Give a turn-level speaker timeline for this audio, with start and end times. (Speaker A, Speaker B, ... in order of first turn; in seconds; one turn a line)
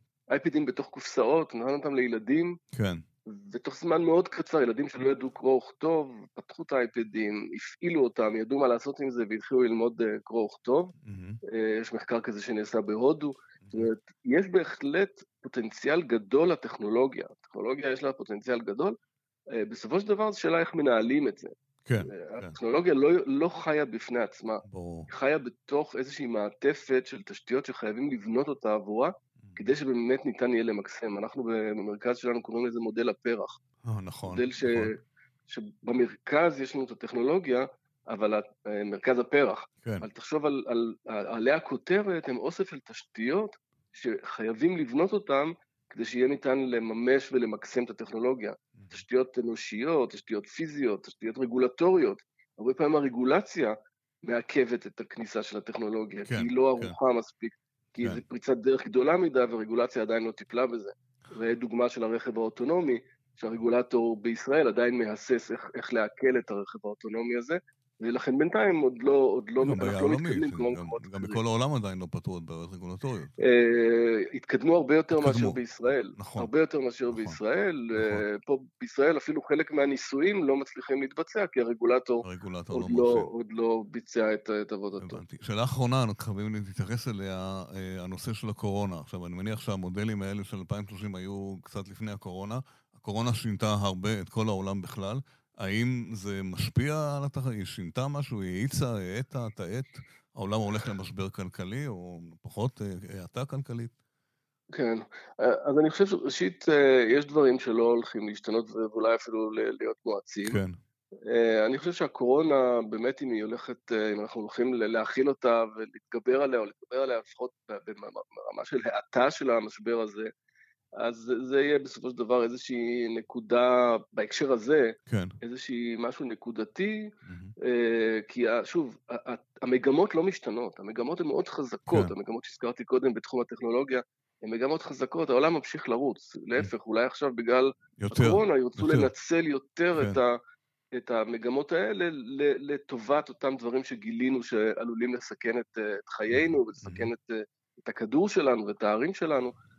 Speaker A: 0.3-2.6
Speaker B: 2.7-3.0
Speaker A: 3.3-10.9
Speaker B: 11.0-11.4
Speaker A: 11.4-18.9
Speaker B: 13.6-13.9
Speaker A: 19.6-33.6
Speaker B: 21.8-22.5
Speaker B: 24.6-25.1
Speaker B: 33.8-34.9
Speaker A: 34.2-35.0
Speaker A: 35.5-71.4
Speaker B: 48.7-49.0
Speaker B: 56.2-57.0
Speaker B: 69.6-73.3
Speaker A: 73.4-85.2
Speaker B: 75.1-75.6
Speaker B: 76.2-76.5
Speaker B: 77.1-77.4
Speaker B: 77.9-78.2
Speaker B: 82.2-83.3
Speaker B: 85.0-103.9
Speaker A: 104.7-110.6
Speaker B: 110.4-110.8
Speaker A: 111.2-120.3
Speaker A: 121.0-140.4
Speaker B: 125.1-125.3
Speaker B: 127.2-127.5
Speaker B: 131.9-132.1
Speaker B: 138.0-139.1
Speaker A: 140.9-149.5
Speaker B: 146.3-147.1